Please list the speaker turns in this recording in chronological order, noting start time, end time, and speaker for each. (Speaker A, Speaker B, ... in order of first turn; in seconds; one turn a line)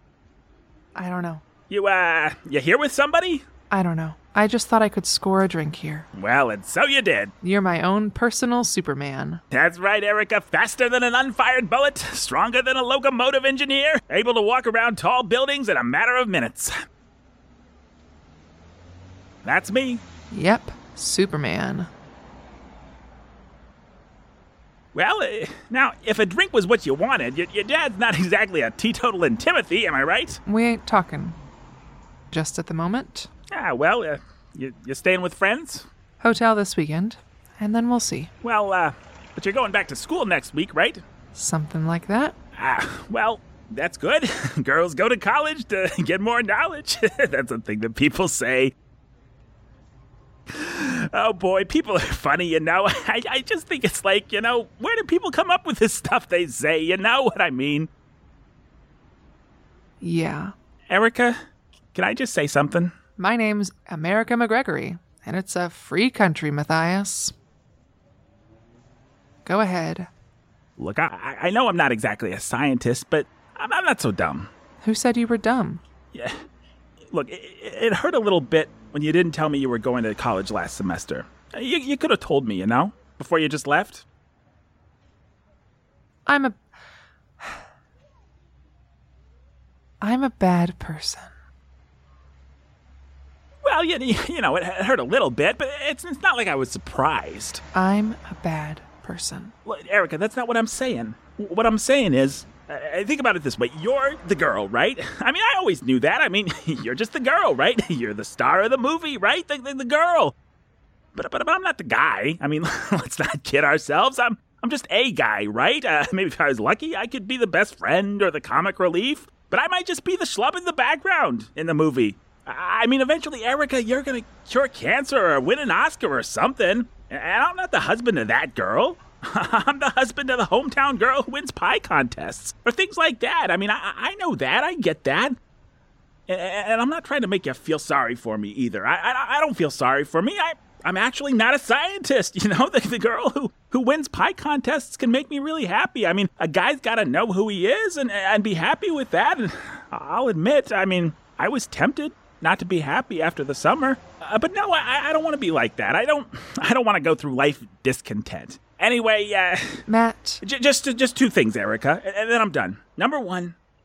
Speaker A: 0.9-1.4
Speaker B: 1.7-3.4
Speaker A: 3.7-6.1
Speaker B: 6.2-7.3
Speaker A: 7.4-9.4
Speaker B: 9.5-16.7
Speaker B: 19.4-20.0
Speaker A: 20.3-21.9
Speaker B: 24.9-30.4
Speaker A: 30.5-31.4
Speaker A: 32.3-33.3
Speaker B: 33.5-35.9
Speaker A: 36.2-38.3
Speaker B: 38.4-41.0
Speaker A: 41.4-42.4
Speaker B: 42.6-48.7
Speaker B: 50.5-57.9
Speaker A: 60.0-60.5
Speaker B: 60.9-61.4
Speaker B: 61.9-62.9
Speaker A: 63.2-67.3
Speaker A: 69.5-70.1
Speaker B: 70.8-74.5
Speaker A: 74.8-75.8
Speaker B: 76.1-76.4
Speaker B: 77.1-84.0
Speaker A: 86.3-86.6
Speaker A: 90.0-91.3
Speaker B: 93.7-97.6
Speaker A: 97.7-99.5
Speaker B: 99.7-110.3
Speaker B: 111.2-135.3
Speaker B: 136.3-159.8
Speaker A: 159.9-160.4
Speaker B: 160.4-163.6